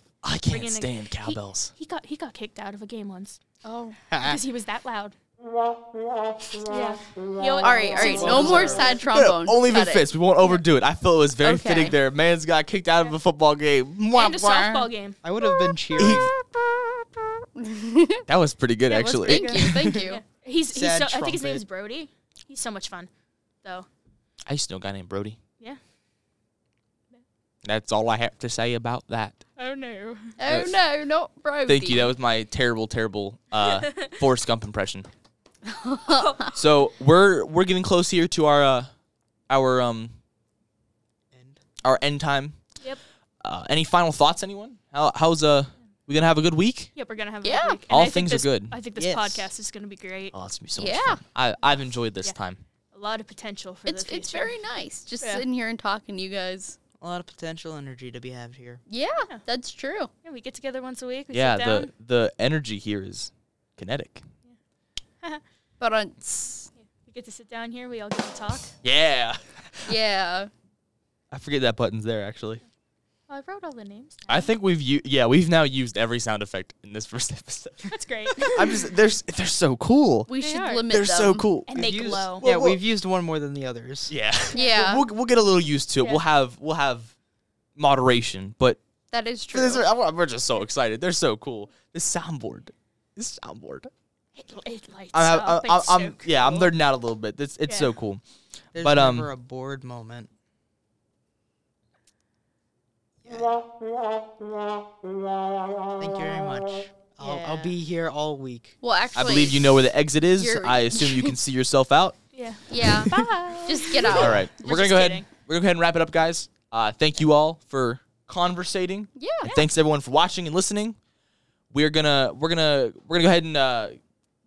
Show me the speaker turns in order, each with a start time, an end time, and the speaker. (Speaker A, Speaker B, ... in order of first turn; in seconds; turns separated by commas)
Speaker A: 0.2-1.7, Speaker B: 0.5-3.4, Speaker C: 3.6-4.0, Speaker D: 4.1-4.4, Speaker B: 4.2-5.2, Speaker B: 6.7-9.0, Speaker C: 7.6-10.1, Speaker D: 8.0-8.9, Speaker A: 9.0-14.9, Speaker C: 11.4-12.0, Speaker B: 14.1-15.2, Speaker D: 15.2-16.3, Speaker C: 15.4-18.2, Speaker A: 16.0-16.3, Speaker A: 18.3-19.8, Speaker C: 18.9-20.2, Speaker B: 19.1-23.1, Speaker D: 19.8-20.1, Speaker D: 20.7-21.6, Speaker A: 24.5-25.4, Speaker A: 27.6-29.4, Speaker B: 29.6-30.3, Speaker C: 30.4-32.1, Speaker A: 30.5-30.8, Speaker A: 31.7-35.1, Speaker B: 33.6-34.1, Speaker C: 35.7-36.5, Speaker B: 36.1-36.5, Speaker A: 36.5-38.9, Speaker A: 39.5-40.1, Speaker D: 41.3-41.6, Speaker A: 41.8-42.7, Speaker A: 43.4-46.9, Speaker B: 47.0-50.4, Speaker C: 47.4-47.8, Speaker A: 47.9-48.8, Speaker D: 49.0-49.5, Speaker A: 50.3-52.6, Speaker C: 50.8-51.2, Speaker B: 52.9-54.6, Speaker C: 53.9-56.8, Speaker B: 55.2-55.5, Speaker D: 57.0-58.8, Speaker C: 58.9-60.1, Speaker B: 60.2-61.9, Speaker A: 61.3-64.2, Speaker C: 65.8-66.7, Speaker B: 66.8-68.7, Speaker A: 68.8-70.0, Speaker C: 69.9-70.5, Speaker A: 71.3-72.6, Speaker B: 73.3-74.5, Speaker A: 74.3-82.8, Speaker B: 77.9-78.9, Speaker C: 80.3-81.5, Speaker B: 80.4-80.9, Speaker B: 81.7-82.5, Speaker D: 81.7-84.1, Speaker A: 84.1-87.1, Speaker C: 84.5-85.1, Speaker B: 84.5-84.8, Speaker B: 86.0-86.2, Speaker A: 87.8-88.8, Speaker C: 89.1-89.9, Speaker A: 89.5-93.9, Speaker B: 94.4-96.7, Speaker A: 95.1-98.2, Speaker B: 97.7-98.0, Speaker A: 98.7-99.3, Speaker D: 98.7-100.3, Speaker D: 103.2-103.6, Speaker D: 106.0-108.8, Speaker C: 107.2-107.7, Speaker C: 108.8-111.4, Speaker A: 109.2-112.2, Speaker B: 112.3-115.3, Speaker C: 112.7-114.8, Speaker A: 112.8-113.1, Speaker A: 114.1-121.0, Speaker C: 119.2-119.7, Speaker A: 121.7-124.0